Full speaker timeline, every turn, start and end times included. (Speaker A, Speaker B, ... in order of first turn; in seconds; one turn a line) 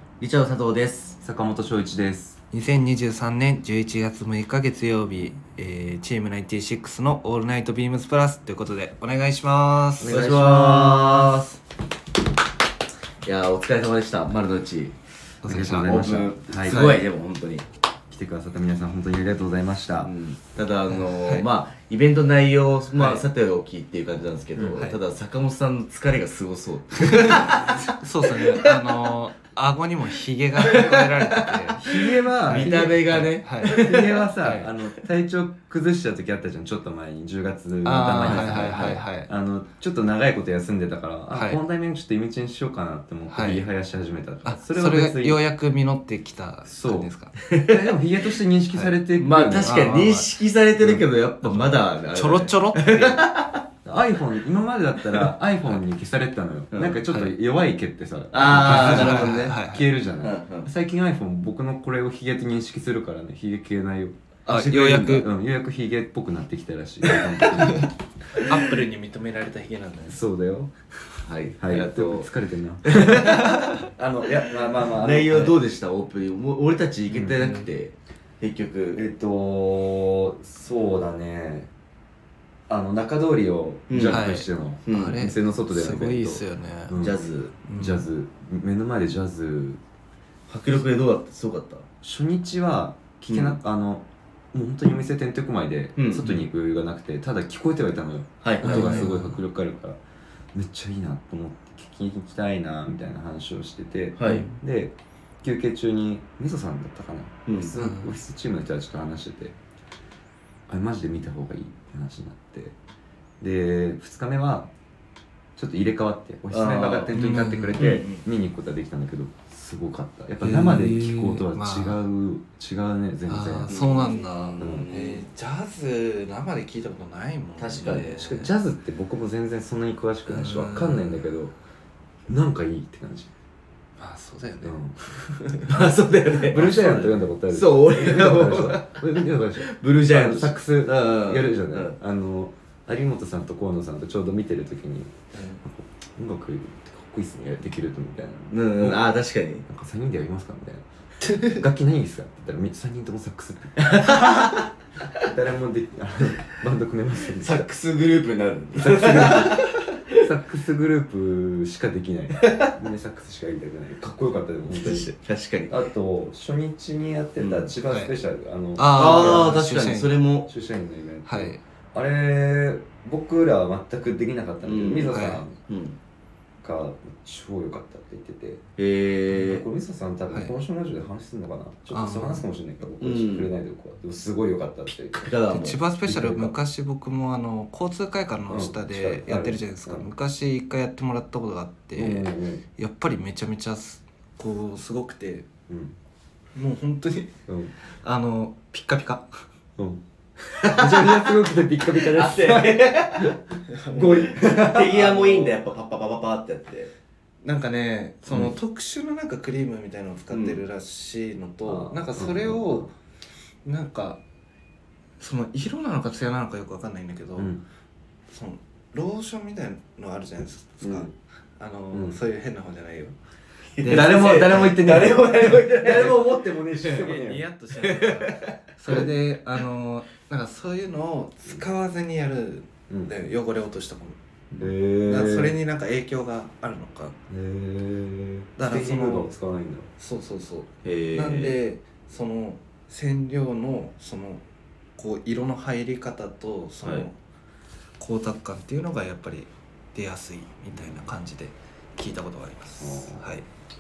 Speaker A: 0.2-1.2
Speaker B: 1.2-2.4
Speaker C: 2.5-10.2
Speaker B: 10.0-11.5
Speaker A: 10.1-11.4
Speaker A: 13.2-15.0
Speaker C: 15.4-16.0
Speaker B: 15.5-17.0
Speaker A: 15.6-17.7
Speaker C: 16.7-17.0
Speaker B: 18.1-20.1
Speaker A: 20.0-29.1
Speaker C: 20.9-21.5
Speaker C: 23.0-23.2
Speaker C: 27.0-31.8
Speaker A: 30.6-34.3
Speaker B: 31.8-45.4
Speaker C: 32.5-33.8
Speaker C: 34.4-34.7
Speaker C: 37.8-39.3
Speaker A: 38.2-38.7
Speaker C: 41.3-41.6
Speaker C: 43.3-43.6
Speaker C: 44.4-47.3
Speaker B: 46.7-50.0
Speaker A: 47.5-48.0
Speaker A: 49.2-53.6
Speaker C: 49.6-50.3
Speaker B: 50.8-51.0
Speaker C: 51.4-53.3
Speaker B: 53.9-64.2
Speaker A: 55.0-55.3
Speaker A: 56.7-57.0
Speaker A: 58.3-59.5
Speaker C: 58.5-59.9
Speaker A: 60.2-60.7
Speaker A: 64.5-65.3
Speaker C: 64.5-65.3
Speaker B: 64.9-67.9
Speaker A: 67.0-67.7
Speaker C: 67.6-70.2
Speaker B: 70.1-70.7
Speaker A: 71.2-72.3
Speaker B: 71.6-75.5
Speaker A: 72.9-73.6
Speaker C: 73.2-73.8
Speaker A: 74.8-79.0
Speaker B: 77.1-77.5
Speaker C: 77.4-77.7
Speaker B: 78.9-81.7
Speaker B: 82.7-87.2
Speaker A: 83.9-84.2
Speaker C: 84.1-87.0
Speaker A: 84.9-85.2
Speaker A: 87.0-87.6
Speaker C: 87.6-88.1
Speaker B: 87.8-89.8
Speaker A: 90.5-91.8
Speaker B: 92.0-100.0
Speaker A: 93.3-93.6
Speaker A: 96.0-96.3
Speaker A: 98.4-99.1
Speaker C: 98.6-99.4
Speaker B: 100.5-109.6
Speaker A: 104.2-104.5
Speaker C: 104.3-104.6
Speaker A: 107.5-107.7
Speaker C: 107.8-108.1
Speaker B: 110.7-112.8
Speaker B: 113.4-114.7
Speaker B: 115.6-124.1
Speaker A: 116.5-117.2
Speaker C: 117.1-117.9
Speaker A: 117.8-118.2
Speaker C: 120.4-122.0
Speaker C: 123.3-128.5
Speaker A: 123.7-125.3
Speaker B: 124.6-124.9
Speaker A: 127.6-128.2
Speaker B: 128.1-131.5
Speaker C: 130.3-131.3
Speaker B: 132.3-133.3
Speaker C: 134.0-135.8
Speaker B: 134.6-135.2
Speaker A: 135.7-141.9
Speaker B: 136.5-149.0
Speaker C: 145.3-145.6
Speaker A: 148.5-149.7
Speaker B: 149.7-150.8
Speaker C: 151.2-151.6
Speaker B: 151.5-154.4
Speaker A: 153.8-155.3
Speaker B: 155.2-157.7
Speaker A: 157.4-160.2
Speaker B: 158.8-159.6
Speaker B: 160.2-165.1
Speaker A: 162.4-162.7
Speaker A: 164.7-165.7
Speaker B: 165.7-169.6
Speaker A: 167.4-167.7
Speaker C: 167.9-168.1
Speaker C: 168.8-170.2
Speaker A: 168.9-170.5
Speaker B: 170.5-175.6
Speaker C: 171.3-171.6
Speaker A: 174.6-176.0
Speaker C: 175.1-175.4
Speaker B: 176.6-178.7
Speaker A: 178.8-179.7
Speaker B: 179.3-185.3
Speaker C: 181.9-182.4
Speaker A: 183.0-183.5
Speaker A: 185.2-186.1
Speaker C: 185.5-195.5
Speaker B: 186.1-186.5
Speaker B: 188.5-190.1
Speaker B: 191.9-192.6
Speaker B: 195.7-195.9
Speaker C: 196.6-197.3
Speaker B: 197.5-197.7
Speaker C: 197.9-199.4
Speaker B: 199.8-205.6
Speaker A: 200.6-203.4
Speaker C: 203.7-204.3
Speaker A: 204.0-206.9
Speaker C: 207.4-212.9
Speaker A: 210.3-210.6
Speaker B: 211.7-212.9
Speaker C: 213.7-214.2
Speaker C: 215.2-217.5
Speaker B: 217.4-217.6
Speaker C: 218.3-223.2
Speaker B: 221.9-222.2
Speaker A: 223.8-227.1
Speaker C: 223.8-226.2
Speaker B: 223.9-227.4
Speaker C: 226.9-234.2
Speaker A: 227.8-229.0
Speaker B: 234.6-235.6
Speaker C: 235.1-237.2
Speaker B: 237.3-239.9
Speaker C: 238.6-239.3
Speaker C: 240.0-244.4
Speaker A: 240.8-241.6
Speaker C: 245.0-247.2
Speaker C: 248.0-253.4
Speaker B: 252.8-253.4